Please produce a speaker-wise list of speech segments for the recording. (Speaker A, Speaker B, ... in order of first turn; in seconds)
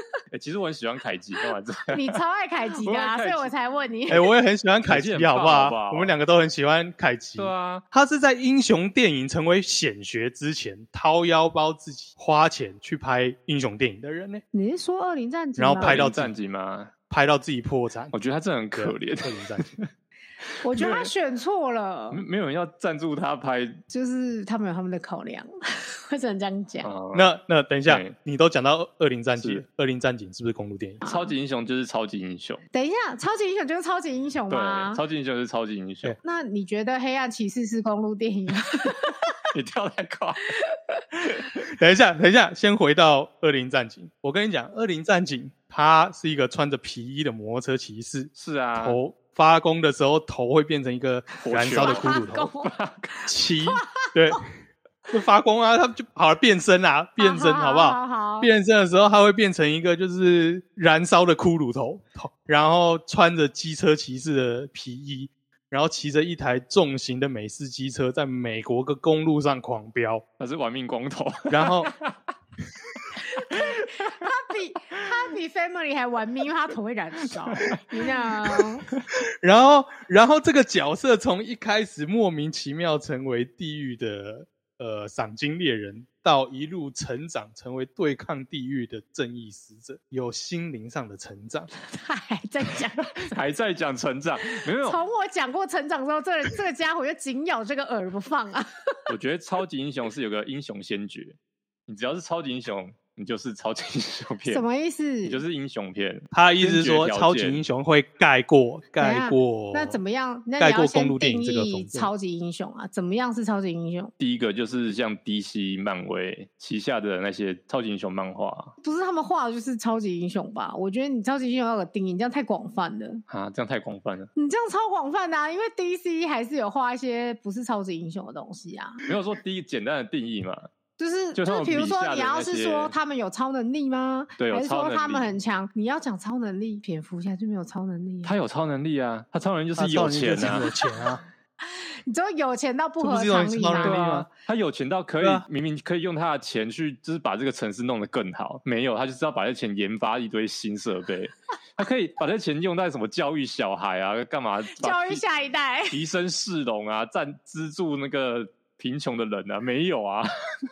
Speaker A: 0.3-2.2, 2.8-3.5, 4.9-6.1, 7.4-7.8, 15.8-16.9, 18.1-19.9, 20.6-21.1, 22.1-23.8, 26.8-27.3, 27.9-28.1, 29.4-29.6, 31.0-32.6, 34.5-36.2, 39.5-40.5, 48.3-49.0, 51.4-53.1, 70.4-72.2, 72.9-74.3, 77.3-79.0, 93.1-95.0, 99.1-104.6, 105.2-107.6, 114.2-118.7, 123.3-124.3, 129.1-130.7, 131.3-132.9, 134.4-135.3, 138.2-140.6, 143.8-155.2, 155.9-160.3
Speaker B: 1.9-4.2, 14.5-16.0, 20.6-22.2, 23.9-26.9, 31.0-31.3, 32.7-35.0, 36.2-39.3, 51.7-54.4, 57.2-58.5, 73.2-78.9, 91.8-93.1, 94.6-99.0, 104.5-105.4, 109.0-114.1, 118.8-123.2, 124.3-129.0, 131.0-138.3, 140.5-141.0, 141.6-144.0, 154.8-156.0
Speaker C: 4.1-14.4, 15.6-16.3, 17.1-18.1, 18.8-19.8, 27.1-31.0, 41.7-52.5, 53.3-54.4, 55.1-70.2, 71.5-71.9, 79.4-91.7, 106.3-110.0, 110.6-112.1, 139.8-141.2, 143.0-144.3